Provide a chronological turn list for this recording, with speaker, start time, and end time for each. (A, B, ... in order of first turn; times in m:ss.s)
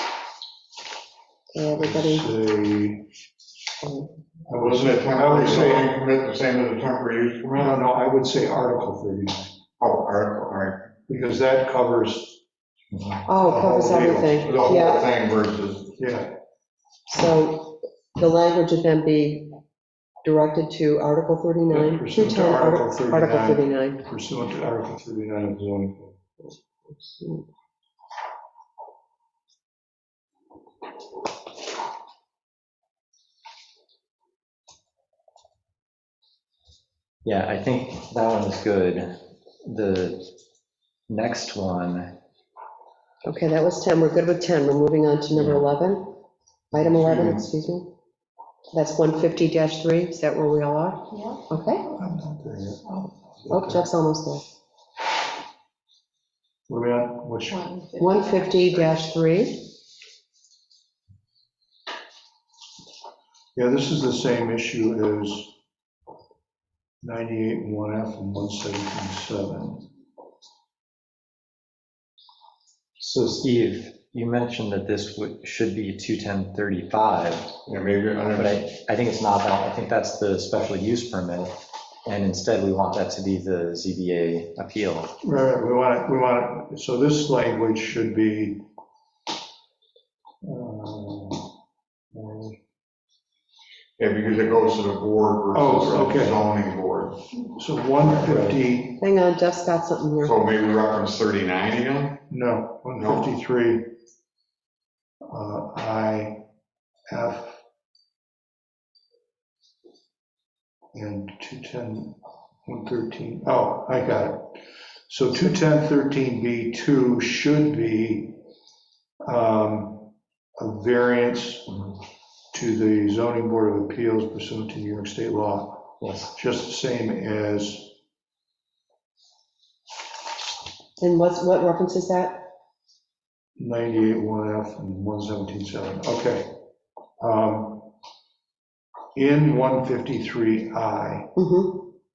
0:01.5-0:02.3 A
0:01.7-0:03.0 B
0:04.5-0:05.9 B
0:04.7-0:07.8 C
0:07.6-0:09.5 B
0:09.8-0:10.9 C
0:11.1-0:12.4 B
0:12.9-0:13.2 D
0:13.3-0:15.1 A
0:13.4-0:14.4 B
0:14.3-0:16.0 C
0:16.0-0:16.3 B
0:17.1-0:19.6 A
0:20.2-0:24.0 A
0:21.7-0:26.2 B
0:37.2-0:39.1 D
0:39.6-0:40.3 D
0:41.1-0:42.1 D
0:43.2-0:46.2 A
0:45.3-0:45.6 D
0:46.7-0:47.9 A
0:46.8-0:47.4 B
0:48.7-0:51.9 A
0:51.9-0:53.9 B
0:53.5-0:54.4 A
0:56.7-0:57.9 B
0:58.0-0:59.7 A
1:03.6-1:05.6 B
1:07.0-1:09.9 B
1:13.0-1:17.5 D
1:17.7-1:18.6 C
1:18.4-1:25.1 D
1:25.2-1:28.6 B
1:30.4-1:31.5 B
1:32.1-1:32.6 B
1:34.0-1:37.2 C
1:35.5-1:36.4 B
1:37.5-1:39.0 B
1:38.1-1:38.6 D
1:39.0-1:40.4 A
1:40.2-1:42.2 C
1:42.3-1:43.9 B
1:45.3-1:46.4 B
1:47.1-1:47.6 B
1:50.9-1:58.4 B
1:59.2-2:01.8 B
2:02.5-2:07.9 B
2:06.0-2:06.3 D
2:11.0-2:12.5 A
2:13.6-2:16.6 B
2:17.2-2:17.9 B
2:19.2-2:21.3 B
2:21.4-2:21.8 A